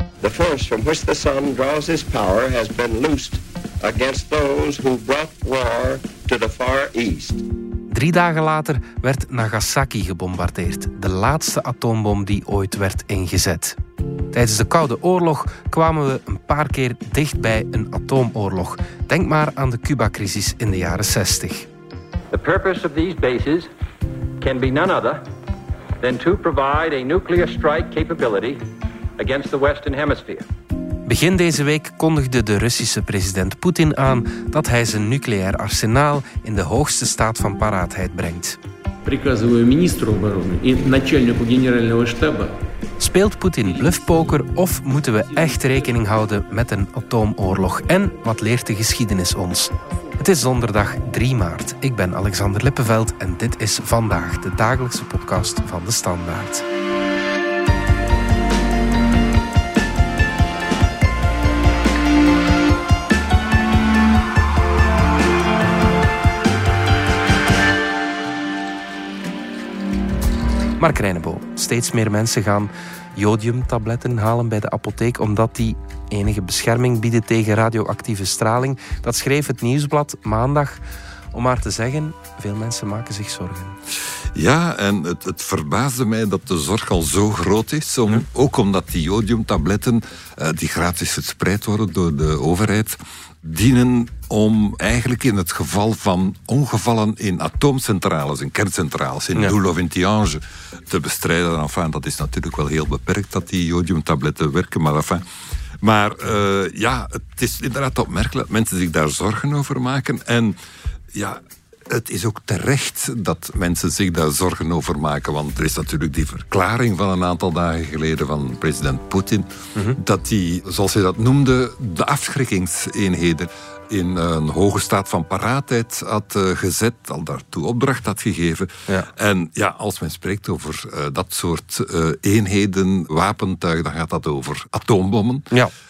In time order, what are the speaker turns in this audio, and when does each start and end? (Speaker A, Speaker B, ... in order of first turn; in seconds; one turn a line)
Speaker A: 0.2-7.4
Speaker B: 7.9-13.8
Speaker B: 14.3-21.7
Speaker C: 22.3-23.7
Speaker C: 24.4-25.2
Speaker C: 26.0-28.6
Speaker C: 29.2-30.4
Speaker B: 31.1-38.6
Speaker D: 39.0-42.5
Speaker B: 43.0-56.6
Speaker D: 43.8-44.1
Speaker B: 70.8-80.8
Speaker B: 81.3-83.8
Speaker E: 84.3-105.2
Speaker E: 105.8-110.6
Speaker E: 111.1-135.5